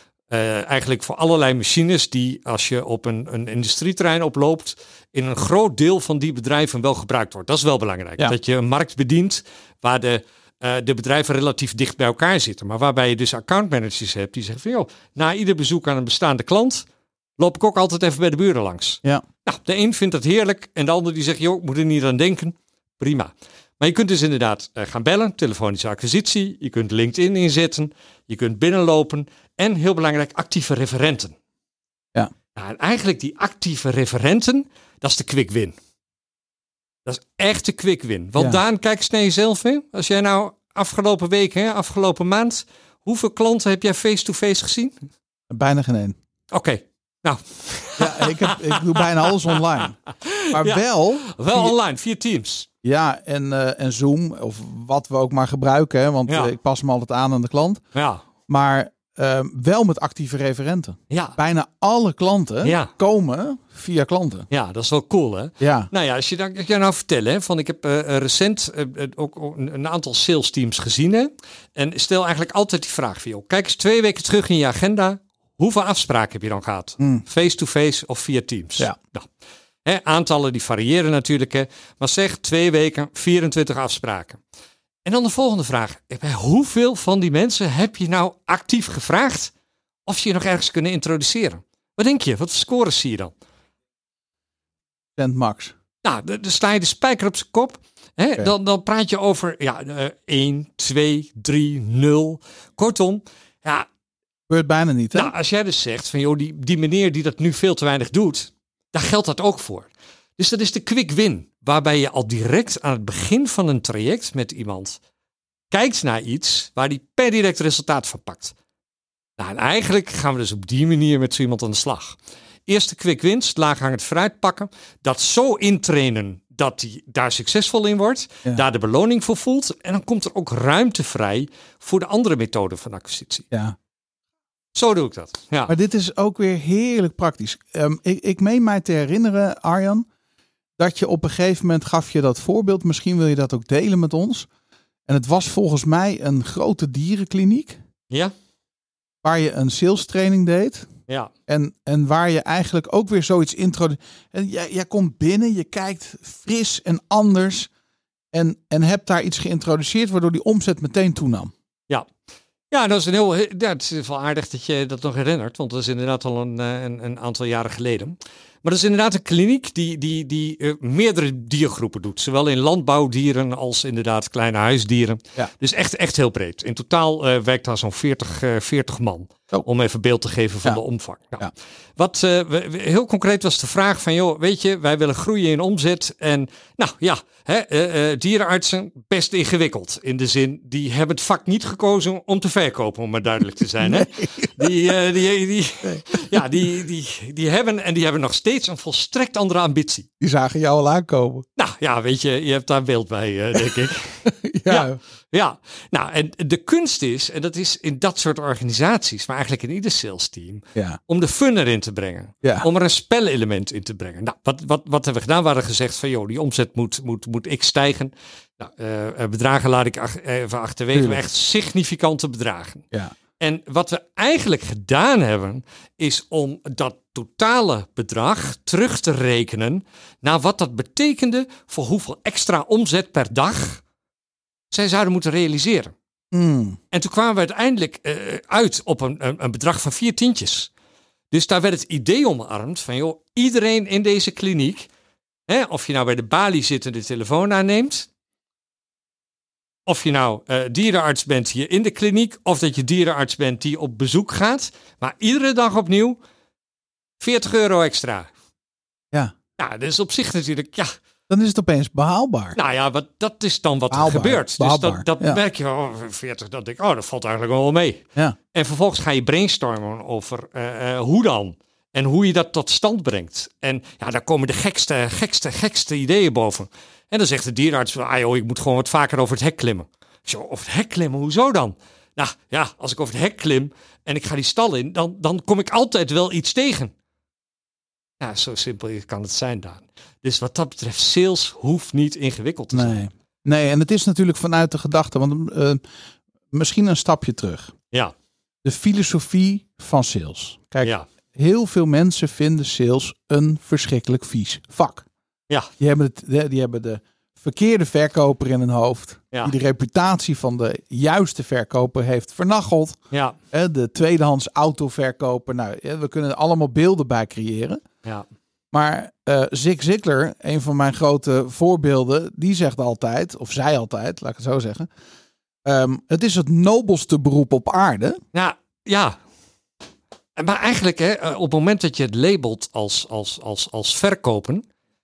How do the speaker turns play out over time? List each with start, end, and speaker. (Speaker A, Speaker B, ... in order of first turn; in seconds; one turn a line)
Speaker A: 0.3-16.9
Speaker A: 17.4-31.3
Speaker A: 32.6-35.8
Speaker A: 37.1-44.9
Speaker B: 45.5-46.1
Speaker A: 46.5-49.6
Speaker B: 48.0-50.0
Speaker A: 50.2-52.7
Speaker B: 50.5-51.7
Speaker B: 52.8-57.8
Speaker A: 57.9-58.2
Speaker B: 58.5-64.5
Speaker A: 61.1-61.4
Speaker A: 62.6-62.9
Speaker A: 64.5-79.3
Speaker B: 65.6-65.9
Speaker A: 79.8-84.4
Speaker A: 85.0-89.5
Speaker A: 90.1-93.3
Speaker B: 95.2-95.7
Speaker A: 96.0-103.9
Speaker B: 104.5-105.3
Speaker A: 105.2-115.0
Speaker A: 115.7-118.5
Speaker A: 119.4-133.5
Speaker A: 134.8-135.7
Speaker B: 135.7-140.1
Speaker B: 140.8-144.5
Speaker B: 145.1-147.8
Speaker B: 149.2-150.9
Speaker B: 151.5-157.7
Speaker B: 158.3-161.5
Speaker A: 162.7-181.4
Speaker A: 182.0-200.1
Speaker B: 193.8-194.7
Speaker B: 195.8-196.6
Speaker B: 200.2-201.4
Speaker A: 201.6-222.8
Speaker B: 204.2-205.0
Speaker B: 210.8-211.0
Speaker B: 220.9-221.2
Speaker A: 223.4-233.8
Speaker A: 234.7-235.9
Speaker B: 236.3-236.8
Speaker A: 236.9-240.7
Speaker A: 241.3-244.9
Speaker A: 245.5-248.1
Speaker A: 249.9-256.2
Speaker A: 257.2-258.3
Speaker A: 259.6-260.9
Speaker B: 261.3-262.6
Speaker A: 262.6-286.9
Speaker B: 263.9-265.4
Speaker A: 288.2-293.0
Speaker B: 292.7-295.8
Speaker B: 296.5-297.7
Speaker B: 298.6-305.1
Speaker B: 305.8-313.0
Speaker B: 313.5-317.8
Speaker B: 318.7-324.9
Speaker B: 325.7-328.2
Speaker A: 328.3-329.2
Speaker A: 330.4-334.6